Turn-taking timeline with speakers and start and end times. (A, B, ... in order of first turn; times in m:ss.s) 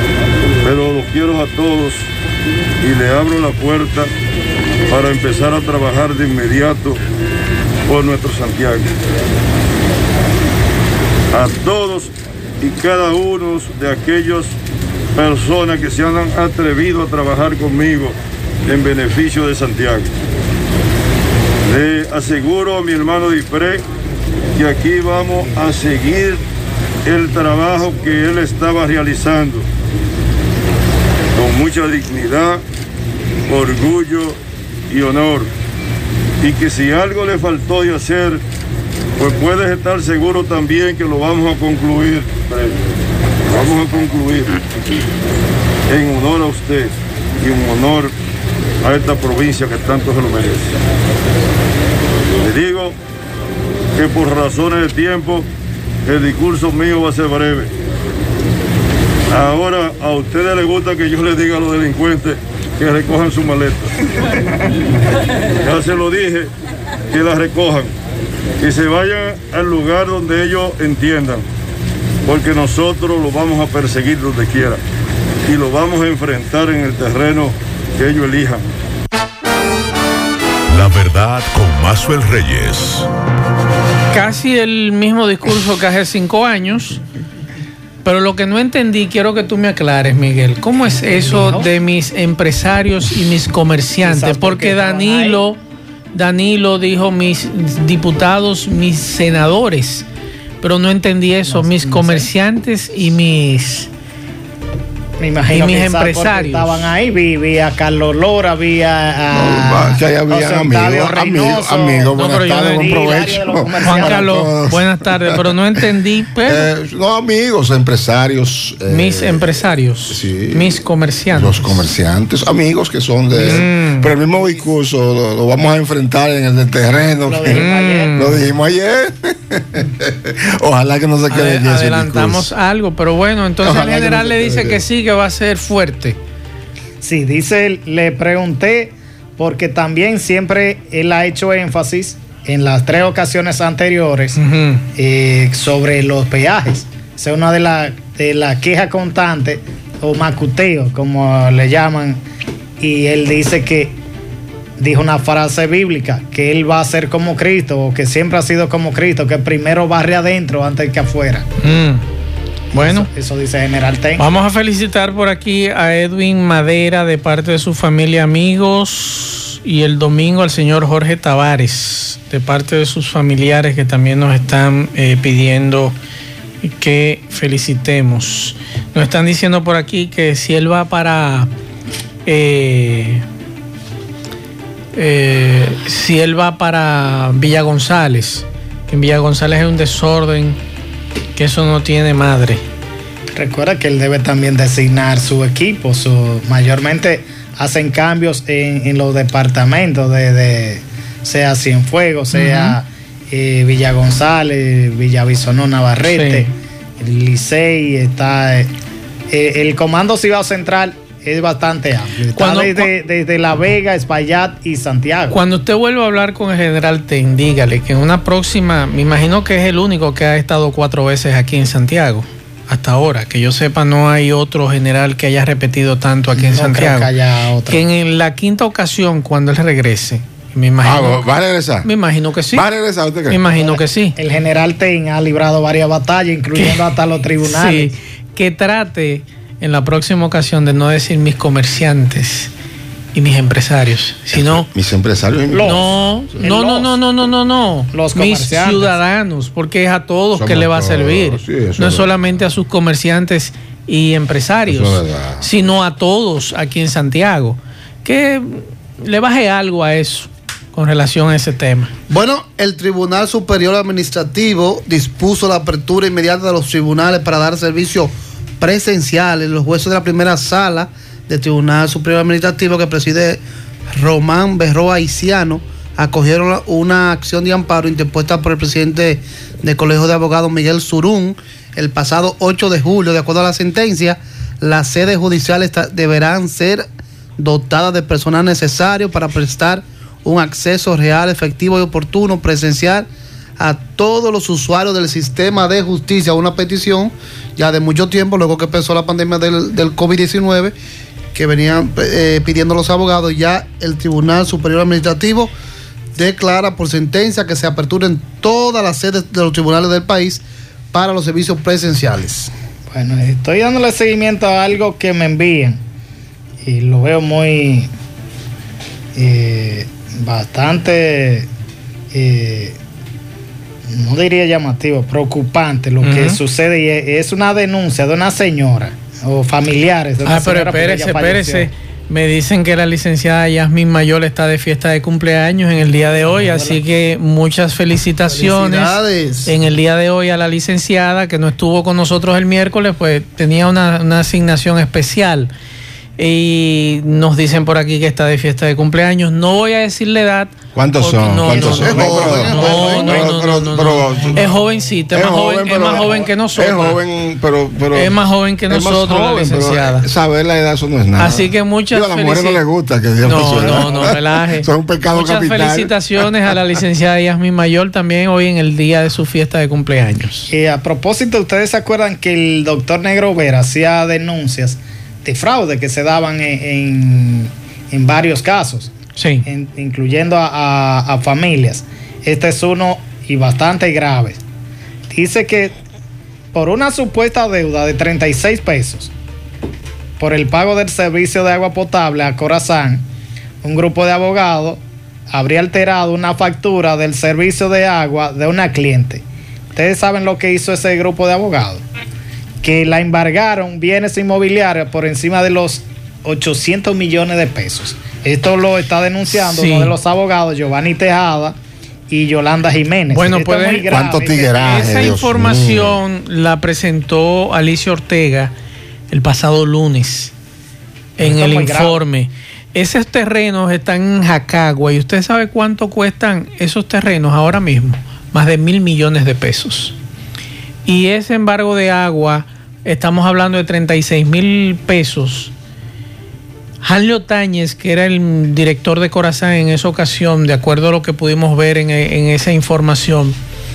0:00.6-0:02.1 A
0:02.8-0:04.1 A
0:04.9-0:07.0 A
0:07.9-0:08.9 A
0:11.3-0:14.6 A
0:15.1-0:20.1 A
0:21.6-0:23.8 A
0:24.5-0:26.4 A
0:27.0-0:29.7 A
0:31.3-0:32.6 A
0:33.5-0:34.4 A
0:34.9-0:35.5 A
0:36.4-0:38.4 A
0:39.2-0:42.8 A
0:43.4-0:44.6 A
0:45.9-0:48.1 A
0:48.8-0:50.8 A
0:52.4-0:52.9 A
0:53.9-0:55.5 A
0:56.0-0:57.7 A
0:59.3-1:03.9 A
1:05.6-1:06.5 A
1:07.1-1:07.9 A
1:08.6-1:11.4 A
1:12.2-1:14.8 A
1:15.4-1:18.7 A
1:20.7-1:23.1 B
1:24.1-1:27.0 C
1:28.0-1:35.6 C
1:30.8-1:31.7 D
1:34.0-1:35.4 D
1:36.1-1:40.0 C
1:40.6-1:43.9 C
1:41.5-1:42.3 D
1:45.2-1:54.3 D
1:45.5-1:46.8 C
1:49.3-1:55.5 E
1:52.1-1:53.1 C
1:53.8-1:56.7 C
1:56.4-2:00.7 E
1:58.9-2:01.8 C
2:01.3-2:12.5 E
2:03.3-2:04.1 C
2:07.2-2:08.2 D
2:07.5-2:08.4 C
2:11.3-2:16.2 C
2:13.6-2:14.8 E
2:17.0-2:24.4 D
2:24.4-2:24.8 C
2:25.0-2:32.2 D
2:32.8-2:34.0 D
2:34.8-2:41.5 D
2:41.6-2:42.0 C
2:42.7-2:43.1 C
2:42.7-2:44.2 D
2:44.2-2:56.0 C
2:56.6-3:01.5 C
3:02.2-3:03.2 C
3:04.9-3:10.6 C
3:11.4-3:12.6 C
3:13.4-3:28.7 D
3:22.3-3:22.8 C
3:26.1-3:26.5 C
3:29.3-3:35.4 D
3:32.4-3:32.9 C
3:35.3-3:47.1 C
3:46.4-3:47.8 D
3:47.7-3:51.2 C
3:50.8-3:51.9 E
3:51.8-3:52.7 C
3:52.5-3:53.4 E
3:53.3-3:54.2 C
3:53.6-3:57.9 D
3:57.4-4:02.5 C
4:03.1-4:04.7 C
4:04.3-4:06.0 E
4:05.5-4:05.8 D
4:05.6-4:21.9 C
4:06.4-4:06.9 D
4:07.9-4:09.0 D
4:10.4-4:12.1 E
4:14.7-4:15.5 E
4:22.1-4:33.4 F
4:33.9-4:46.8 F
4:47.4-5:00.7 F
5:01.3-5:05.5 F
5:06.2-5:12.5 F
5:12.9-5:15.8 D
5:16.6-5:17.9 D
5:19.2-5:21.5 D
5:22.1-5:22.8 D
5:23.9-5:31.7 D
5:26.0-5:26.4 C
5:30.2-5:45.5 C
5:36.4-5:36.6 D
5:38.3-5:39.5 F
5:46.2-5:57.0 C
5:50.7-5:54.5 E
5:51.4-5:53.4 F
5:55.1-6:06.3 E
5:56.0-5:56.2 D
5:57.9-6:00.1 C
6:01.2-6:02.6 C
6:03.2-6:10.5 C
6:10.5-6:18.9 D
6:19.2-6:19.4 C
6:19.4-6:24.4 D
6:25.1-6:25.7 D
6:26.5-6:29.1 D
6:30.2-6:33.0 D
6:33.6-6:39.2 D
6:39.7-6:41.8 D
6:42.6-6:51.6 D
6:49.3-6:49.9 C
6:52.1-6:54.9 D
6:53.1-6:53.8 C
6:53.9-6:56.0 E
6:54.6-6:58.5 C
6:59.1-7:00.3 C
7:01.2-7:10.0 C
7:01.2-7:02.0 D
7:10.8-7:15.5 C
7:16.8-7:23.4 C